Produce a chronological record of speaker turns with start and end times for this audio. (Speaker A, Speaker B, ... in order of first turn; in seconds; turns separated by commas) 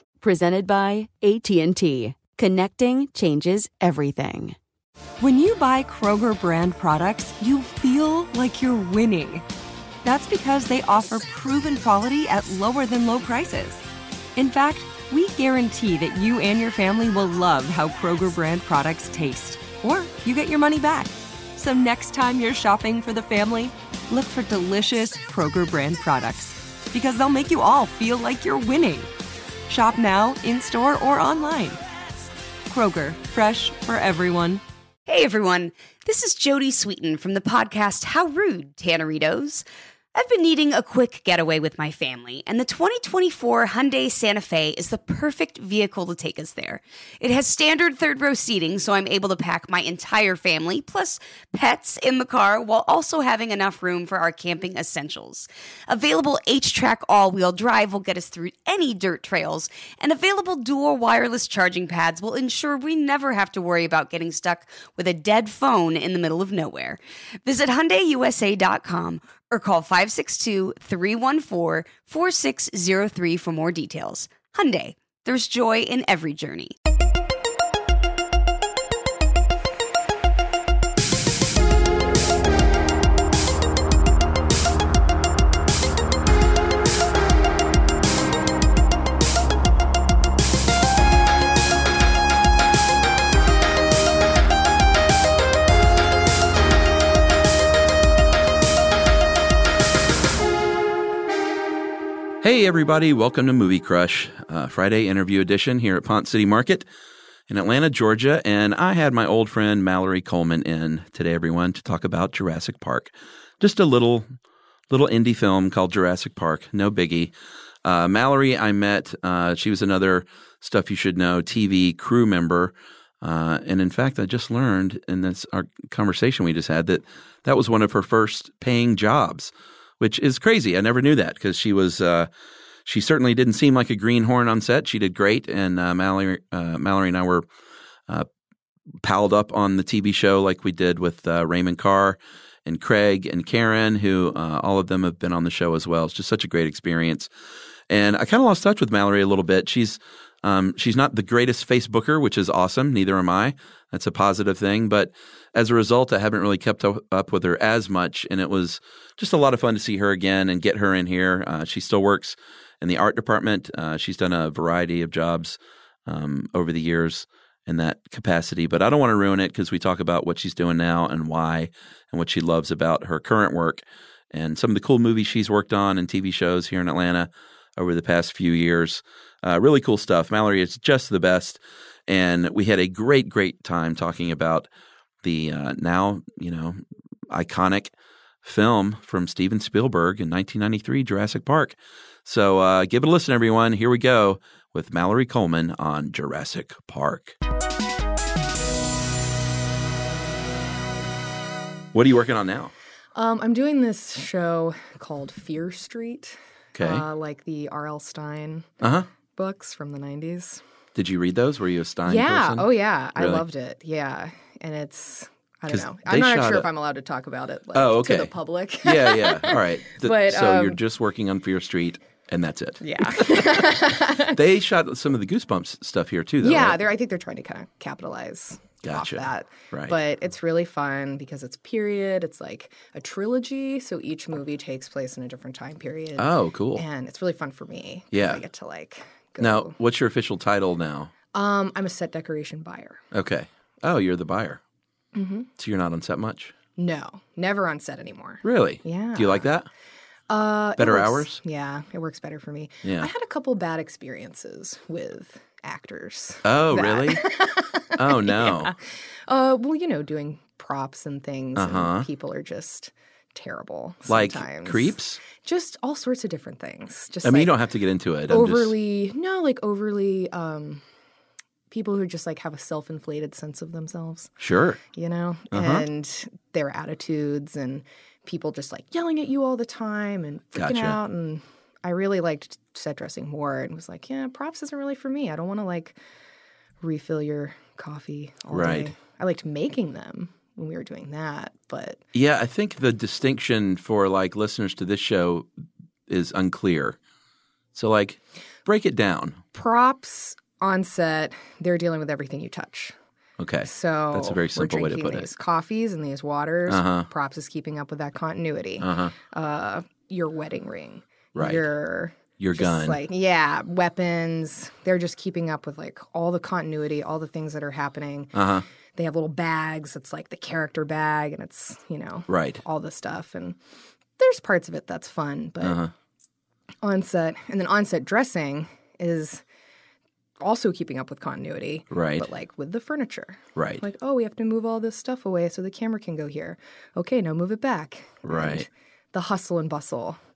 Speaker A: 0.2-4.6, Speaker B: 5.2-9.4, Speaker B: 10.0-13.8, Speaker B: 14.4-29.1, Speaker B: 29.7-31.8, Speaker B: 32.7-34.6, Speaker C: 35.1-76.8, Speaker D: 102.4-106.9, Speaker D: 107.5-114.3, Speaker D: 114.9-117.3, Speaker D: 117.8-132.3, Speaker D: 132.9-137.4, Speaker D: 139.0-147.3, Speaker D: 147.9-184.7, Speaker D: 185.2-186.8, Speaker D: 187.3-187.9, Speaker D: 188.4-197.3, Speaker D: 201.9-202.7, Speaker E: 203.2-208.7, Speaker D: 206.8-207.0, Speaker D: 208.8-209.1, Speaker E: 209.4-210.6, Speaker D: 211.0-213.4, Speaker E: 212.1-220.8, Speaker D: 215.7-216.7, Speaker D: 217.8-218.3, Speaker D: 218.8-226.8, Speaker E: 222.8-224.4, Speaker E: 226.4-239.7, Speaker D: 228.8-229.9, Speaker D: 236.2-236.8, Speaker D: 238.1-238.4, Speaker D: 239.4-241.1, Speaker E: 241.3-243.0, Speaker D: 243.1-244.6, Speaker E: 245.2-245.5, Speaker D: 245.6-246.5, Speaker E: 246.8-249.5, Speaker D: 248.4-249.7, Speaker E: 250.3-267.6, Speaker D: 250.8-251.4, Speaker D: 252.8-253.1, Speaker D: 256.4-257.2, Speaker D: 257.9-258.7, Speaker D: 261.6-262.1, Speaker D: 264.1-265.2, Speaker D: 267.2-268.7, Speaker E: 268.3-270.8, Speaker E: 271.7-274.3, Speaker D: 274.4-274.8, Speaker E: 274.9-286.0, Speaker D: 275.5-275.9, Speaker D: 280.6-281.0, Speaker E: 286.8-292.0, Speaker D: 288.5-288.9, Speaker D: 292.1-295.5, Speaker D: 296.1-297.0, Speaker D: 297.8-299.4, Speaker E: 299.6-302.9, Speaker D: 303.4-305.3, Speaker E: 303.6-318.4, Speaker D: 306.7-307.1, Speaker D: 308.8-309.1, Speaker D: 311.4-311.7, Speaker D: 312.4-313.0, Speaker D: 318.3-318.6, Speaker E: 319.0-323.6, Speaker D: 322.3-322.6, Speaker E: 324.2-325.8, Speaker D: 325.6-325.9, Speaker E: 326.8-329.4, Speaker E: 330.4-340.2, Speaker D: 331.9-332.3, Speaker D: 333.6-333.8, Speaker D: 338.3-338.7